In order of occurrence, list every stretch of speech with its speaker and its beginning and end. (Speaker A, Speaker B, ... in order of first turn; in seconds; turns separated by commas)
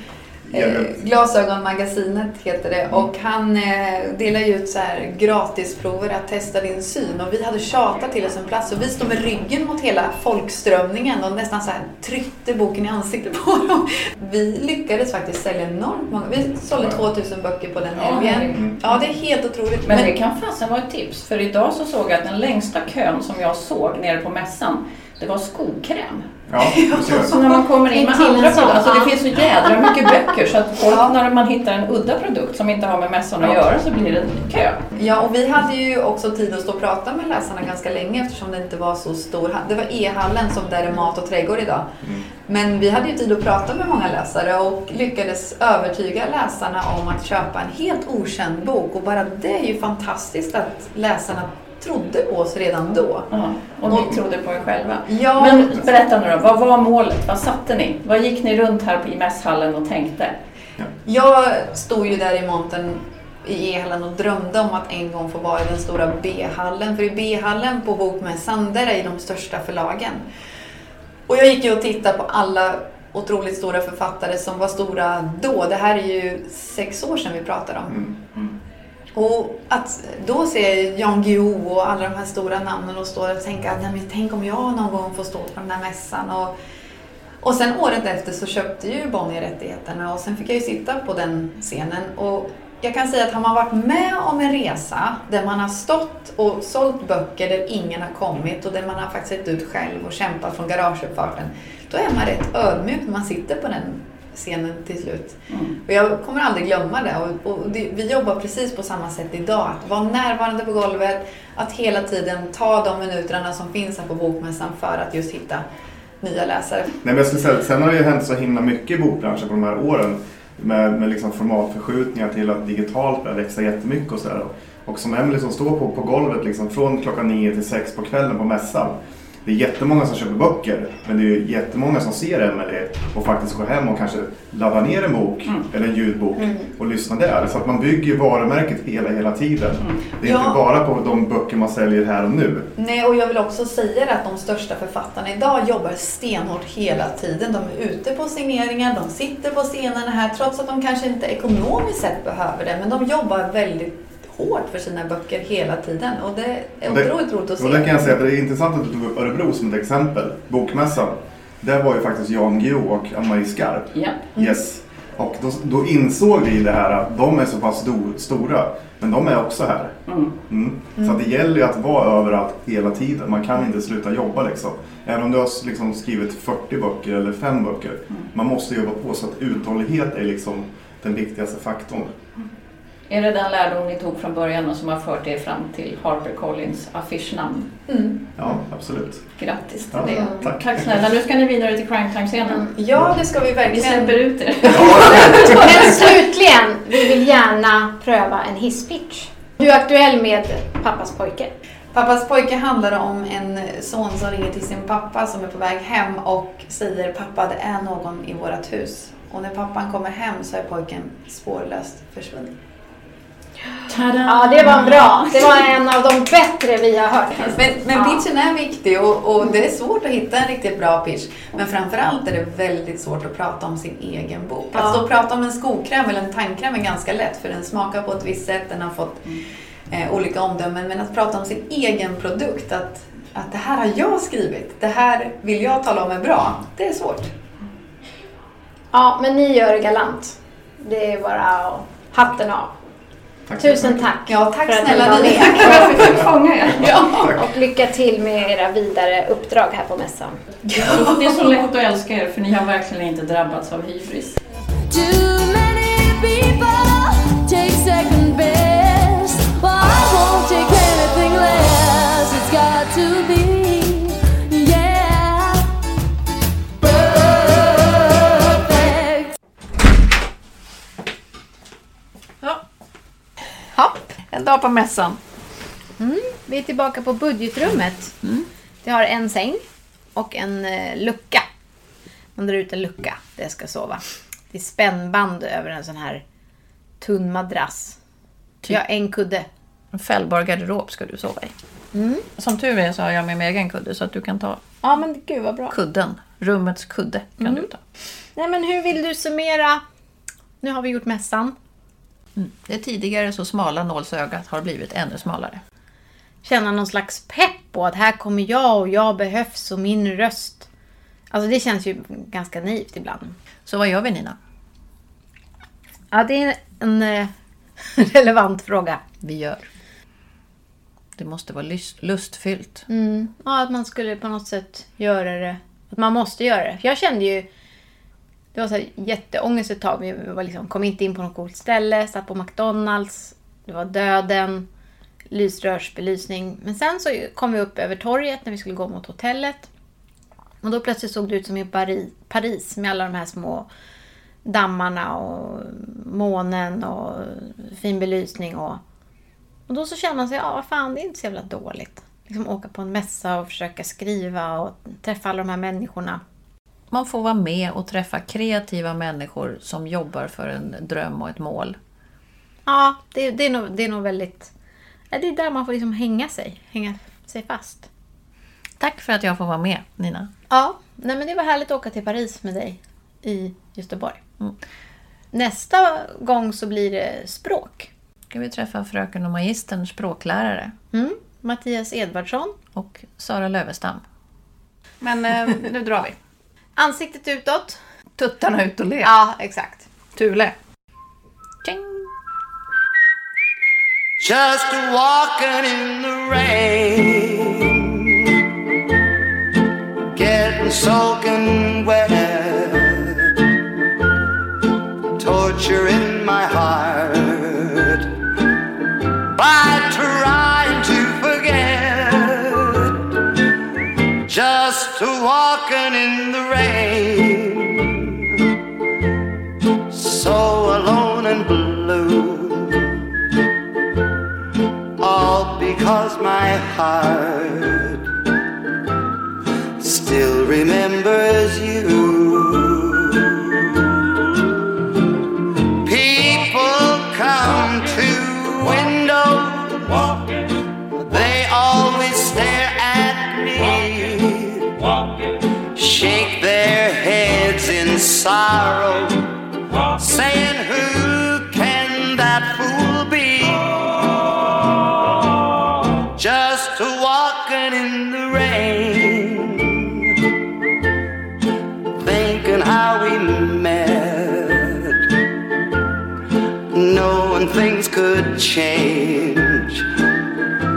Speaker A: 0.5-1.0, Speaker B: 0.5-20.1, Speaker A: 16.8-17.0, Speaker C: 17.9-18.7, Speaker C: 19.8-26.3, Speaker A: 26.5-27.3, Speaker B: 26.6-27.3, Speaker C: 27.2-34.8, Speaker D: 27.8-30.1, Speaker B: 35.0-53.3, Speaker C: 53.3-60.4, Speaker A: 53.9-54.2, Speaker B: 55.1-55.9, Speaker B: 61.0-70.2, Speaker B: 71.3-78.1, Speaker A: 77.9-78.2, Speaker B: 79.2-86.5, Speaker B: 87.4-115.6, Speaker B: 116.2-116.9, Speaker A: 117.0-142.7, Speaker B: 136.4-136.7, Speaker B: 140.2-140.6, Speaker B: 142.8-158.0, Speaker A: 156.8-170.0, Speaker C: 163.9-164.3, Speaker C: 170.1-170.3, Speaker A: 170.5-182.2, Speaker B: 170.9-171.2, Speaker C: 183.1-187.7, Speaker B: 187.9-188.2, Speaker A: 188.4-189.3, Speaker C: 189.4-192.7, Speaker A: 189.9-190.9, Speaker D: 190.0-190.5, Speaker B: 192.7-195.6, Speaker C: 193.7-196.1, Speaker A: 194.8-195.4, Speaker D: 195.5-201.5, Speaker B: 201.9-212.6, Speaker C: 213.9-215.7, Speaker D: 214.2-218.2, Speaker B: 217.4-229.2, Speaker D: 224.7-225.0, Speaker B: 229.9-237.3, Speaker D: 238.9-242.7, Speaker A: 243.5-244.2, Speaker D: 243.6-246.1, Speaker B: 244.2-246.2, Speaker C: 245.4-247.3, Speaker A: 247.1-247.4, Speaker D: 247.2-250.4, Speaker C: 250.7-254.4, Speaker E: 254.9-265.7, Speaker E: 266.8-269.3, Speaker D: 273.7-274.1, Speaker C: 274.3-275.2, Speaker D: 276.0-278.1, Speaker D: 278.8-279.6, Speaker D: 280.1-281.4, Speaker D: 282.4-286.2, Speaker D: 287.0-288.0, Speaker D: 288.6-289.5, Speaker C: 289.9-291.5, Speaker D: 291.9-292.2, Speaker C: 292.4-294.6, Speaker D: 294.8-295.8, Speaker C: 295.7-297.8, Speaker D: 297.4-297.7, Speaker D: 298.4-299.8, Speaker D: 300.6-301.6, Speaker C: 302.4-305.6, Speaker D: 306.4-310.7, Speaker D: 311.3-313.4, Speaker C: 313.7-314.4, Speaker D: 316.1-317.3, Speaker D: 317.9-319.0, Speaker C: 319.2-319.6, Speaker C: 321.2-322.8, Speaker D: 322.9-327.5, Speaker D: 328.5-334.7, Speaker D: 335.3-339.7, Speaker D: 340.6-343.7, Speaker D: 344.4-348.8, Speaker D: 349.7-356.2, Speaker C: 356.9-361.8, Speaker D: 362.7-364.5, Speaker D: 365.1-367.9, Speaker C: 368.8-370.3, Speaker D: 370.5-374.2, Speaker D: 375.3-377.9, Speaker C: 378.3-380.7, Speaker D: 380.9-382.6, Speaker C: 382.8-384.0, Speaker C: 385.0-386.1, Speaker D: 386.8-387.8, Speaker C: 388.2-389.1, Speaker D: 389.0-389.9, Speaker C: 390.2-390.6, Speaker C: 391.6-392.1, Speaker F: 394.2-398.0, Speaker F: 400.1-403.2, Speaker F: 405.2-408.1, Speaker F: 409.4-413.0, Speaker F: 414.3-418.0, Speaker F: 419.9-422.9, Speaker F: 425.0-428.0, Speaker F: 429.8-433.5, Speaker F: 435.8-440.2, Speaker F: 441.0-444.9, Speaker F: 445.8-449.2, Speaker F: 449.9-454.3, Speaker F: 456.1-460.0, Speaker F: 462.0-465.0, Speaker F: 466.7-469.9